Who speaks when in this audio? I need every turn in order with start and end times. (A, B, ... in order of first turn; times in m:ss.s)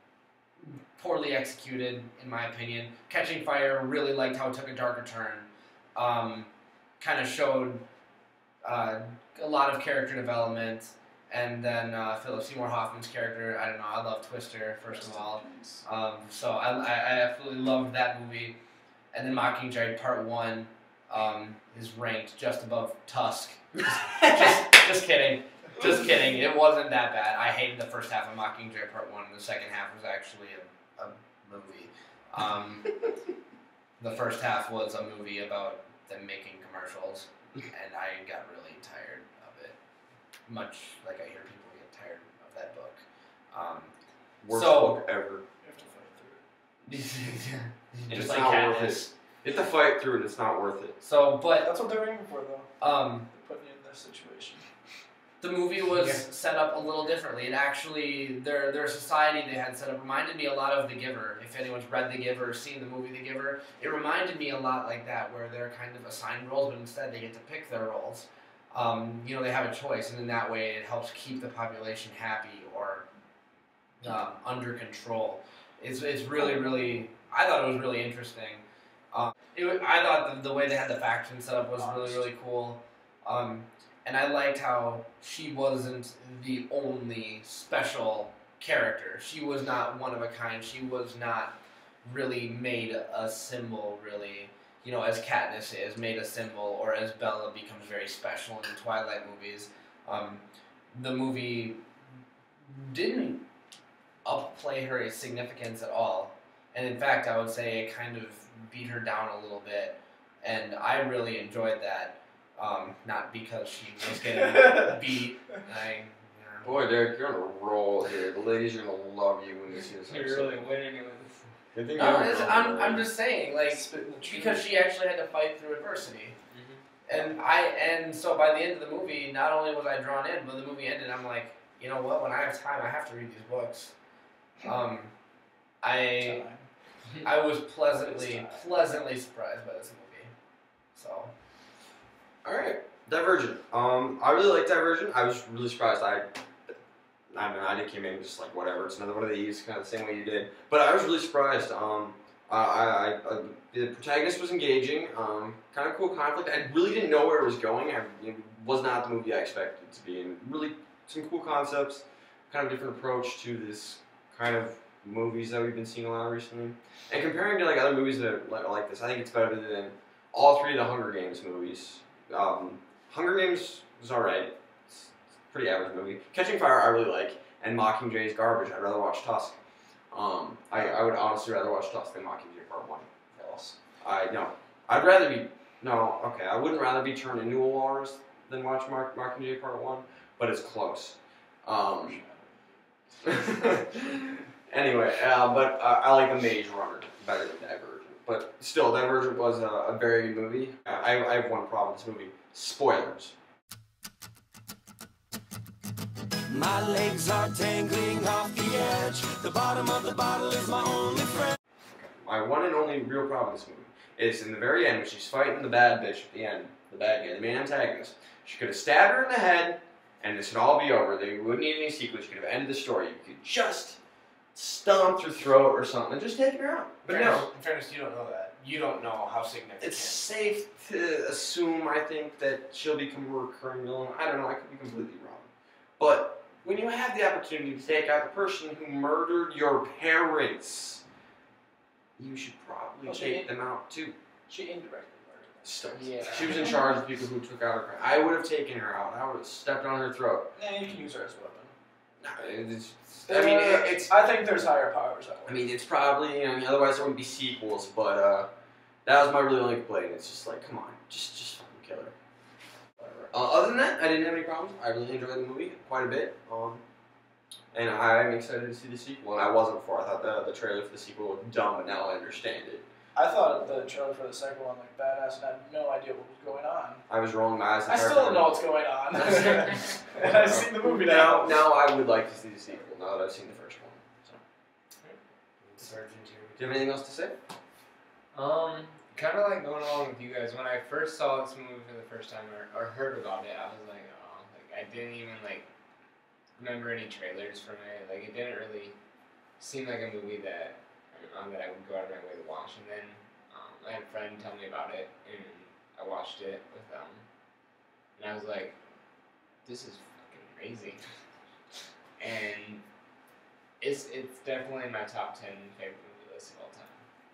0:00.6-0:07.8 A
0:08.6-0:18.6 A
0:14.9-0:15.8 B
0:19.1-0:32.9 A
0:34.0-0:39.8 A
0:40.5-0:43.9 A
0:44.4-0:45.4 C
0:44.5-0:45.0 A
0:45.6-0:46.4 B
0:46.9-0:49.1 A
0:48.1-0:51.0 C
0:51.0-0:51.7 A
0:51.6-0:52.7 B
0:52.8-0:53.3 A
0:53.3-0:54.6 B
0:55.4-1:13.0 A
1:14.0-1:41.8 A
1:21.8-1:22.3 B
1:42.6-1:43.4 A
1:44.2-1:56.7 A
1:56.6-2:00.7 C
1:59.9-2:01.5 D
2:01.7-2:03.1 C
2:01.9-2:06.4 A
2:03.7-2:04.6 B
2:06.5-2:06.8 D
2:07.0-2:13.9 A
2:14.6-2:15.1 A
2:15.8-2:16.4 A
2:16.2-2:16.7 B
2:17.2-2:20.3 A
2:17.9-2:19.0 B
2:20.9-2:21.3 A
2:22.4-2:26.3 C
2:27.3-2:59.6 C
3:00.1-3:03.1 C
3:03.4-3:03.7 B
3:04.0-3:12.2 C
3:11.9-3:12.6 B
3:13.2-3:23.3 C
3:26.5-3:31.5 E
3:31.9-3:44.0 C
3:44.5-3:47.5 C
3:47.0-3:50.3 A
3:49.8-4:01.0 C
4:02.2-4:04.1 C
4:03.0-4:03.5 B
4:04.5-4:06.9 B
4:05.6-4:10.5 C
4:05.9-4:06.7 D
4:10.5-4:11.7 B
4:12.2-4:14.1 C
4:13.3-4:15.6 B
4:15.4-4:18.5 C
4:19.0-4:22.1 C
4:23.3-4:26.8 C
4:27.7-4:32.8 C
4:33.1-4:37.0 B
4:37.1-4:38.5 C
4:37.9-4:41.6 B
4:39.1-4:44.0 C
4:45.8-4:46.6 A
4:46.6-4:47.4 C
4:48.3-4:55.7 D
4:56.6-4:58.9 D
4:59.6-5:07.2 D
5:08.2-5:08.8 D
5:09.6-5:11.0 D
5:12.2-5:12.8 D
5:13.8-5:17.0 D